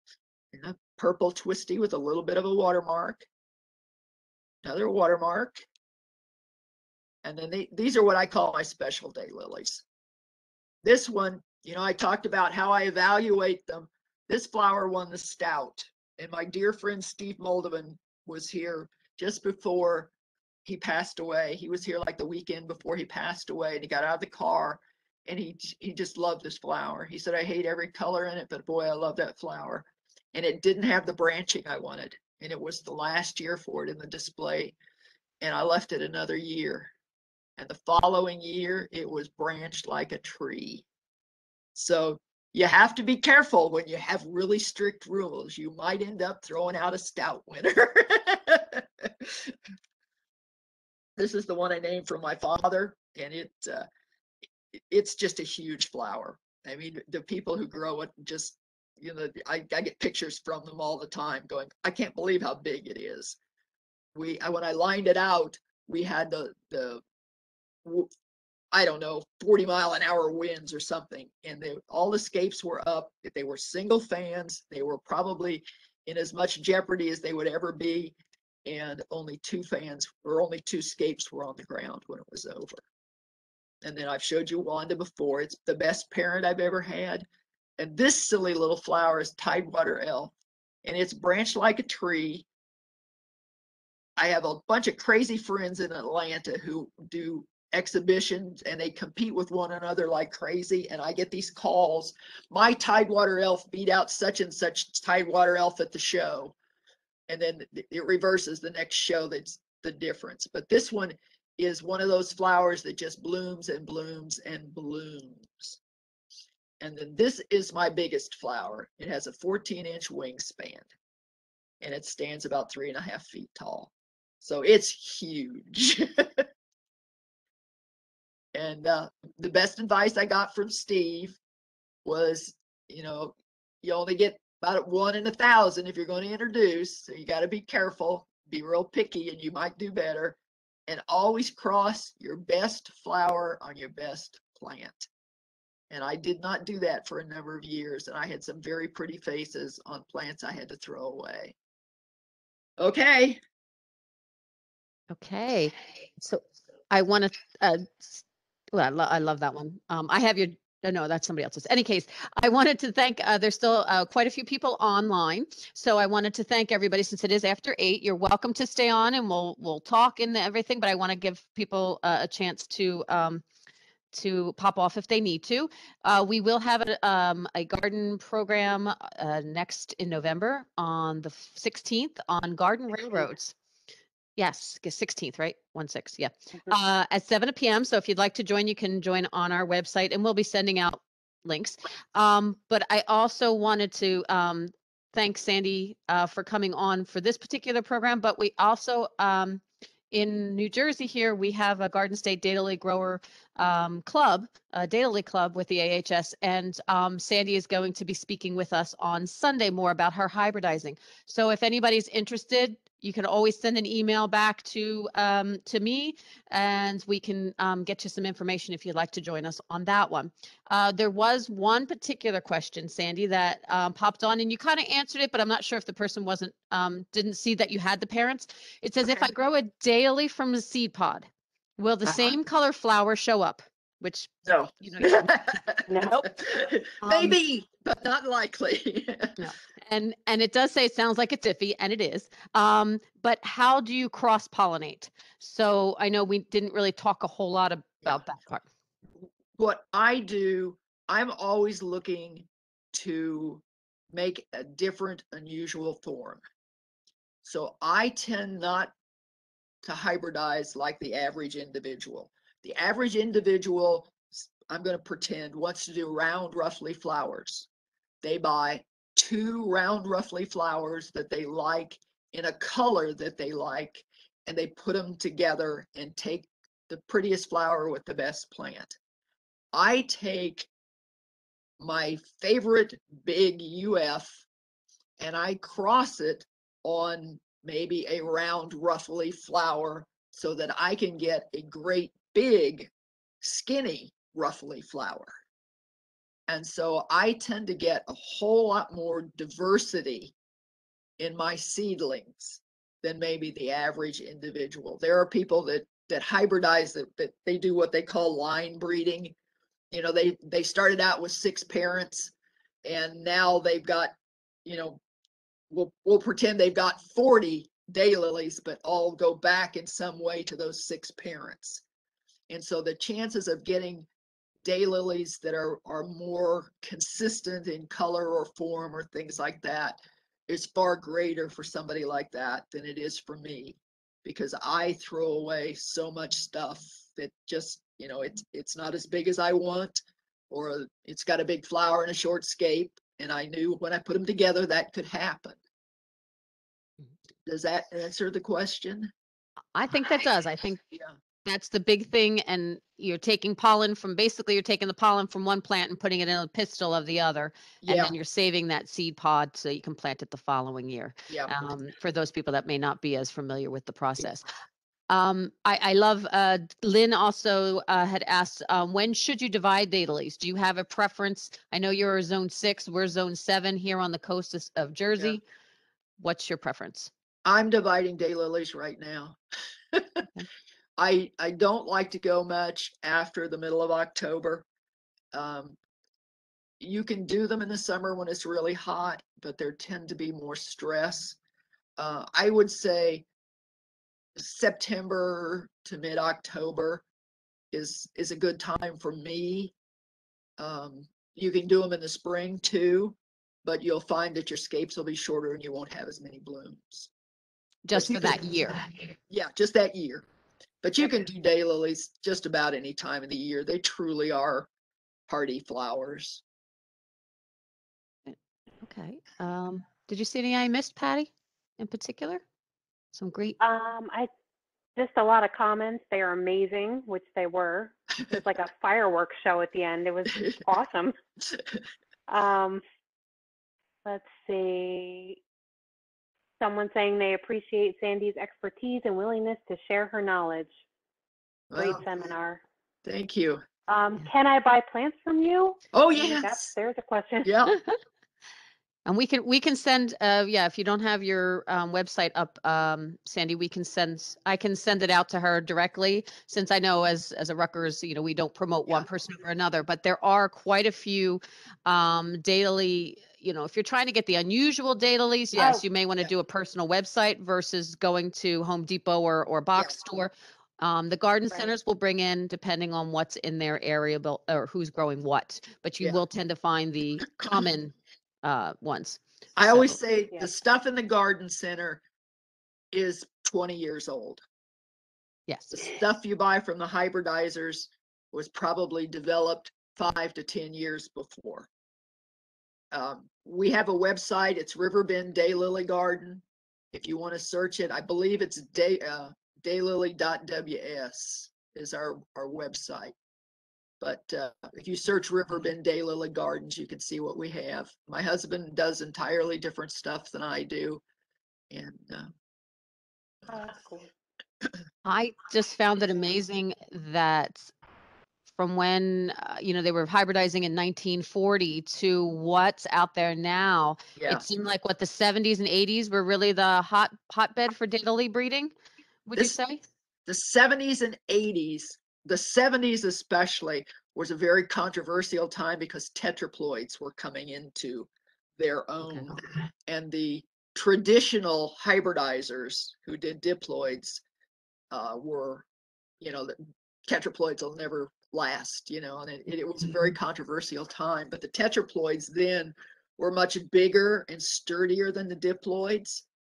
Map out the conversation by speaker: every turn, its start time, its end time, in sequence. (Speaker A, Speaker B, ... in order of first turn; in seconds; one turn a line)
Speaker A: 0.5-3.3
Speaker A: 4.6-5.7
Speaker A: 7.2-9.8
Speaker A: 10.8-20.1
Speaker A: 20.6-34.8
Speaker A: 35.4-36.9
Speaker A: 37.6-40.9
Speaker A: 41.8-49.5
Speaker A: 51.2-53.9
Speaker A: 54.7-63.4
Speaker A: 64.2-67.0
Speaker A: 67.8-68.1
Speaker A: 68.7-82.8
Speaker A: 83.8-87.3
Speaker A: 87.8-90.3
Speaker A: 90.8-92.5
Speaker A: 94.2-106.5
Speaker A: 107.3-115.8
Speaker A: 116.8-120.9
Speaker A: 121.8-126.5
Speaker A: 128.5-131.4
Speaker A: 132.1-145.1
Speaker A: 145.9-151.6
Speaker A: 152.8-153.4
Speaker B: 155.1-173.4
Speaker B: 174.1-183.6
Speaker B: 184.4-235.3
Speaker A: 232.1-232.3
Speaker A: 234.4-239.4
Speaker B: 236.0-236.3
Speaker B: 237.0-237.4
Speaker B: 239.4-248.7
Speaker A: 249.2-256.4
Speaker A: 257.4-258.9
Speaker A: 259.8-267.7
Speaker A: 268.2-278.9
Speaker A: 279.7-280.7
Speaker A: 281.8-284.4
Speaker A: 285.2-292.9
Speaker A: 293.4-295.3
Speaker A: 296.5-300.4
Speaker A: 301.2-309.4
Speaker A: 309.9-312.3
Speaker A: 312.9-314.1
Speaker A: 314.6-315.0
Speaker A: 315.7-321.8
Speaker A: 322.5-324.1
Speaker A: 324.6-345.6
Speaker A: 347.5-349.1
Speaker B: 349.7-350.9
Speaker B: 351.4-364.4
Speaker A: 357.8-358.1
Speaker B: 365.1-375.4
Speaker B: 376.2-377.1
Speaker A: 377.4-379.4
Speaker A: 379.9-380.3
Speaker A: 381.0-384.6
Speaker A: 385.3-385.8
Speaker A: 386.8-391.4
Speaker A: 392.0-393.3
Speaker A: 394.4-397.1
Speaker A: 397.7-399.7
Speaker A: 400.6-407.1
Speaker B: 407.9-408.8
Speaker A: 407.9-410.3
Speaker A: 410.8-414.7
Speaker A: 415.3-416.4
Speaker B: 418.3-422.4
Speaker B: 423.1-423.6
Speaker C: 423.6-424.3
Speaker C: 425.0-431.1
Speaker C: 432.3-432.8
Speaker C: 434.1-435.4
Speaker C: 436.6-440.7
Speaker A: 441.7-442.0
Speaker C: 441.8-442.6
Speaker A: 443.1-443.6
Speaker C: 443.9-447.5
Speaker A: 445.9-446.7
Speaker A: 447.4-447.8
Speaker B: 449.1-480.0
Speaker C: 465.6-465.8
Speaker A: 479.6-482.0
Speaker A: 482.9-484.4
Speaker B: 485.5-485.9
Speaker A: 485.7-491.7
Speaker A: 492.9-503.1
Speaker A: 504.0-511.0
Speaker A: 511.7-512.3
Speaker C: 513.5-514.1
Speaker B: 515.0-517.7
Speaker B: 518.5-528.7
Speaker A: 524.2-524.4
Speaker B: 529.3-529.8
Speaker A: 530.3-544.2
Speaker B: 539.0-539.3
Speaker A: 544.9-545.7
Speaker A: 546.2-546.5
Speaker A: 547.1-556.2